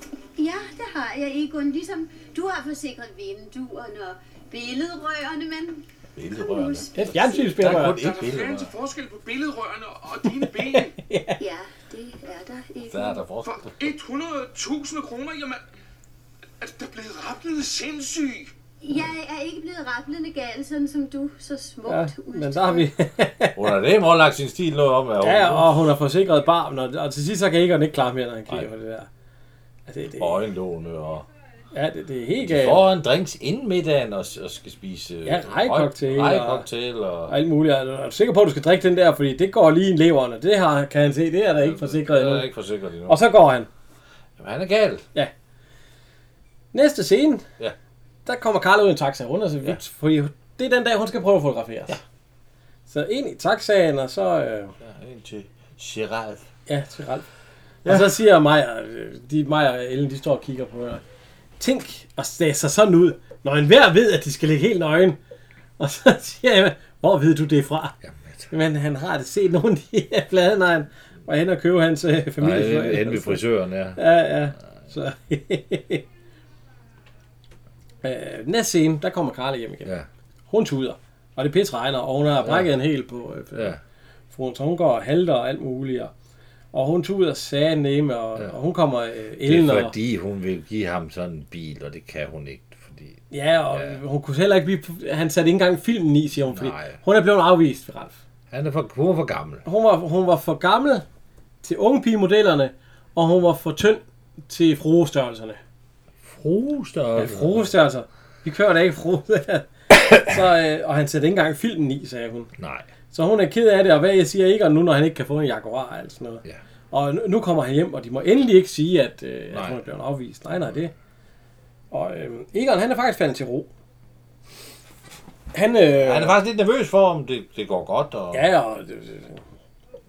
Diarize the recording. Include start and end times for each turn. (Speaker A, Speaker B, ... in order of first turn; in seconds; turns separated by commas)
Speaker A: 0.4-7.6, Speaker B: 6.2-8.7, Speaker C: 7.0-8.0, Speaker D: 7.7-10.9, Speaker C: 10.4-11.4, Speaker A: 11.4-13.2, Speaker B: 12.9-13.9, Speaker D: 13.4-15.6, Speaker D: 16.6-18.5, Speaker A: 18.8-22.9, Speaker C: 21.9-23.6, Speaker B: 23.6-25.9, Speaker C: 25.2-29.1, Speaker C: 29.9-30.4, Speaker B: 30.2-31.3, Speaker C: 31.7-32.8, Speaker B: 32.4-37.3, Speaker C: 35.3-36.7, Speaker C: 37.3-42.5, Speaker B: 41.6-43.2, Speaker C: 43.1-43.7, Speaker B: 44.4-45.1, Speaker C: 46.7-47.5, Speaker C: 48.3-52.0, Speaker C: 52.9-54.8, Speaker B: 54.8-56.5, Speaker C: 56.7-57.3, Speaker C: 57.9-61.0, Speaker C: 61.6-65.2, Speaker C: 65.8-68.0, Speaker B: 68.0-68.5, Speaker C: 68.5-73.4, Speaker B: 72.4-74.0, Speaker C: 74.0-76.0, Speaker C: 78.0-79.9, Speaker C: 80.5-83.8, Speaker B: 82.4-82.7, Speaker C: 84.3-86.1, Speaker C: 86.7-90.0, Speaker B: 89.4-93.2, Speaker C: 93.3-98.2, Speaker B: 93.7-94.0, Speaker B: 96.5-97.0, Speaker B: 98.5-99.7, Speaker C: 99.7-101.0, Speaker C: 101.6-105.6, Speaker B: 106.2-107.7, Speaker C: 107.2-112.5, Speaker B: 112.6-112.9, Speaker C: 113.1-120.9, Speaker B: 119.5-119.8, Speaker C: 121.9-123.7, Speaker C: 125.5-126.4, Speaker B: 126.0-128.5, Speaker C: 128.3-129.4